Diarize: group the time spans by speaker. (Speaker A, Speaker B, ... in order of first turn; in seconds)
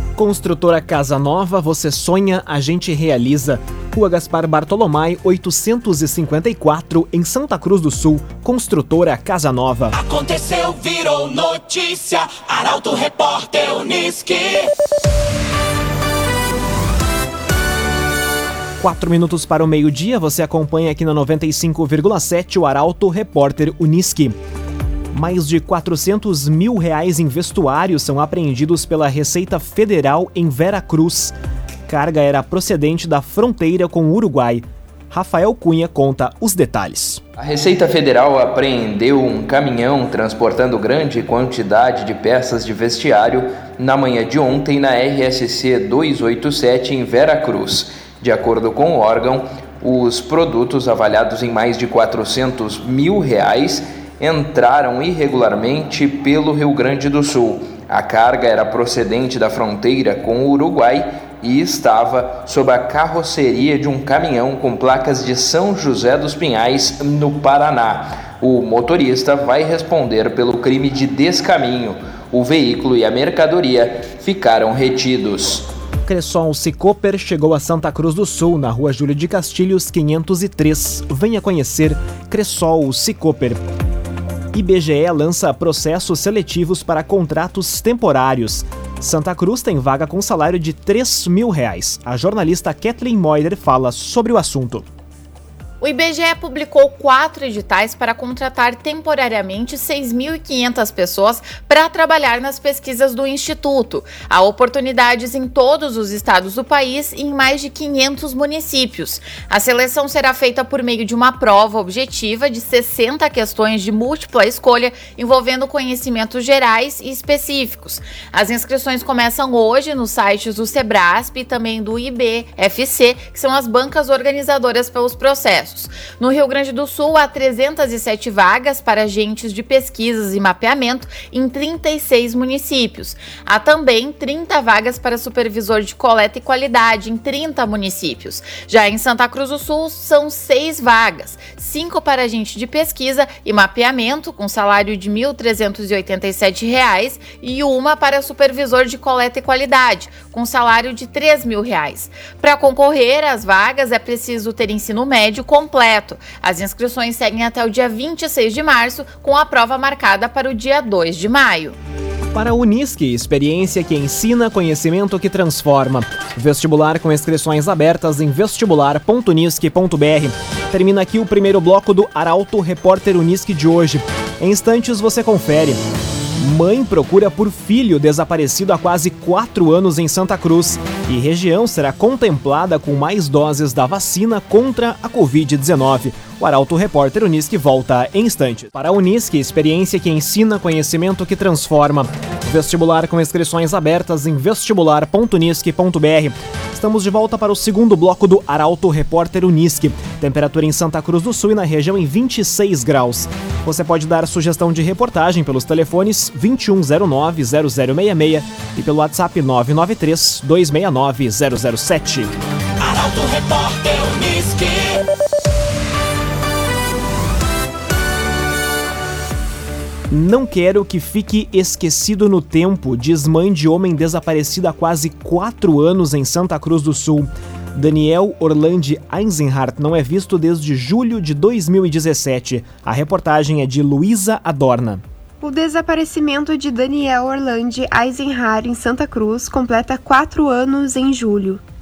Speaker A: 0.2-10.0, 18.8-24.3, 25.1-31.3, 31.9-37.2, 76.1-83.6, 84.5-94.8, 162.3-175.8, 176.4-212.3, 220.1-235.0
Speaker B: 10.0-14.7, 212.8-215.0
Speaker C: 37.4-75.7
Speaker D: 95.8-161.7
Speaker E: 235.4-241.6